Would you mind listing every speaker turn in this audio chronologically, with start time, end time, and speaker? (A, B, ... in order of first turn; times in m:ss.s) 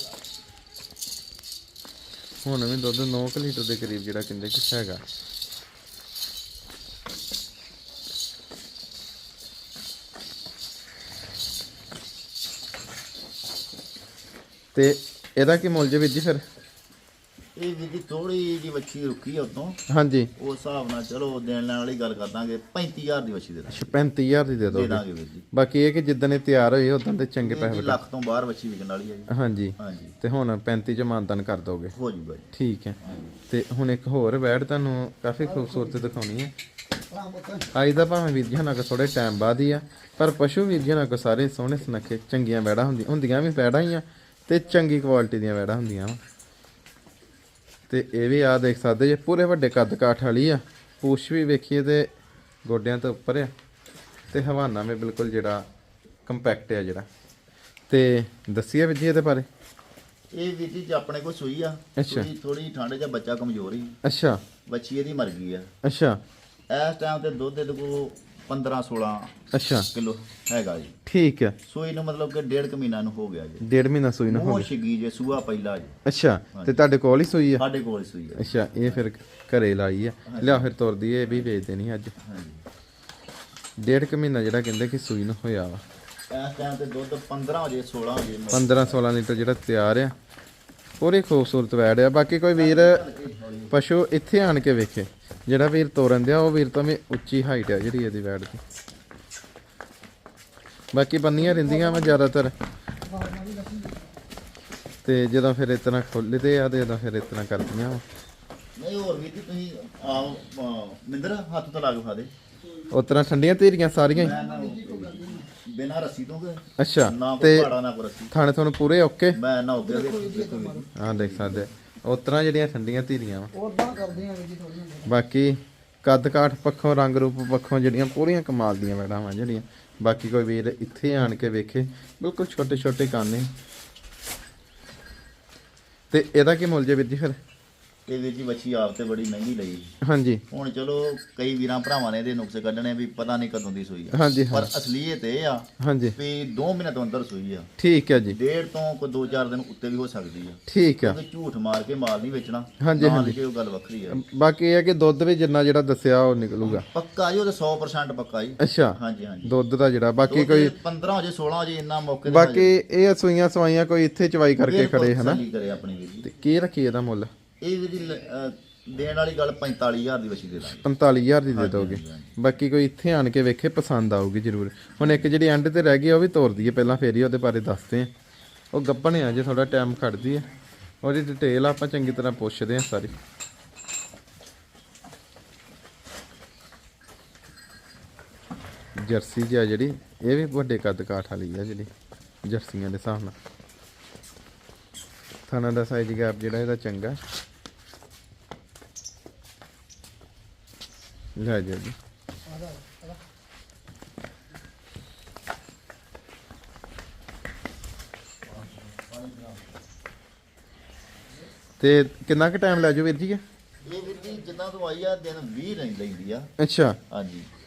0:02.4-0:05.0 A
0:14.7-0:16.4 A
0:17.6-0:19.8 B
0:19.9-0:20.3 A
0:20.4-0:24.0 B
0:23.7-0:28.0 A
0:24.7-0:25.5 B
0:27.4-0:30.2 B
0:29.3-0:31.9 A
0:31.9-0:32.5 B
0:32.5-0:36.5 A
0:33.0-0:33.3 B
0:37.1-0:37.6 C
0:37.6-0:46.2 A
0:47.9-0:52.1 A
0:52.6-0:53.5 A
0:54.3-0:55.6 A
0:56.2-0:57.1 A
0:57.9-0:59.5 A
1:00.3-1:04.0 B
1:02.0-1:02.3 A
1:04.0-1:04.4 A
1:04.6-1:05.7 B
1:05.8-1:06.2 A
1:06.7-1:09.4 B
1:09.5-1:09.9 A
1:09.9-1:11.0 B
1:11.0-1:11.6 A
1:11.6-1:13.6 B
1:13.6-1:14.7 A
1:14.3-1:16.0 B
1:16.0-1:17.6 A
1:16.5-1:16.8 B
1:17.6-1:19.0 B
1:18.4-1:22.1 A
1:20.2-1:21.5 B
1:22.2-1:22.6 B
1:23.8-1:25.8 A
1:26.3-1:29.0 B
1:28.5-1:30.1 A
1:31.0-1:33.0 A
1:32.5-1:33.8 B
1:33.7-1:38.6 A
1:40.9-1:42.5 A
1:43.1-1:44.0 C
1:45.0-1:48.0 A
1:48.8-1:52.3 B
1:52.9-1:54.4 A
1:54.1-1:58.3 B
1:56.8-1:57.7 A
1:58.3-1:59.4 A
1:59.3-2:01.7 B
2:00.2-2:00.8 C
2:00.9-2:03.6 A
2:03.7-2:05.0 C
2:05.0-2:13.5 A
2:16.1-2:17.4 A
2:18.1-2:19.9 B
2:20.0-2:20.4 A
2:20.5-2:34.2 B
2:24.1-2:24.7 A
2:25.8-2:26.2 A
2:27.8-2:28.4 A
2:30.7-2:31.2 A
2:32.8-2:33.4 A
2:34.1-2:36.8 A
2:36.6-2:39.6 B
2:38.6-2:40.8 A
2:40.2-2:42.8 B
2:42.2-2:45.4 A
2:44.6-2:46.3 B
2:46.2-2:47.3 A
2:47.6-2:50.9 B
2:50.8-2:58.1 A
2:51.5-2:52.4 B
2:55.0-2:55.2 B
2:58.7-3:00.5 A
3:01.0-3:03.1 A
3:09.0-3:11.9 A
3:12.4-3:13.3 A
3:15.4-3:17.2 A
3:21.4-3:22.0 A
3:22.6-3:23.1 C
3:31.8-3:33.4 A
3:33.8-3:36.5 B
3:36.6-3:37.0 A
3:37.0-3:37.5 B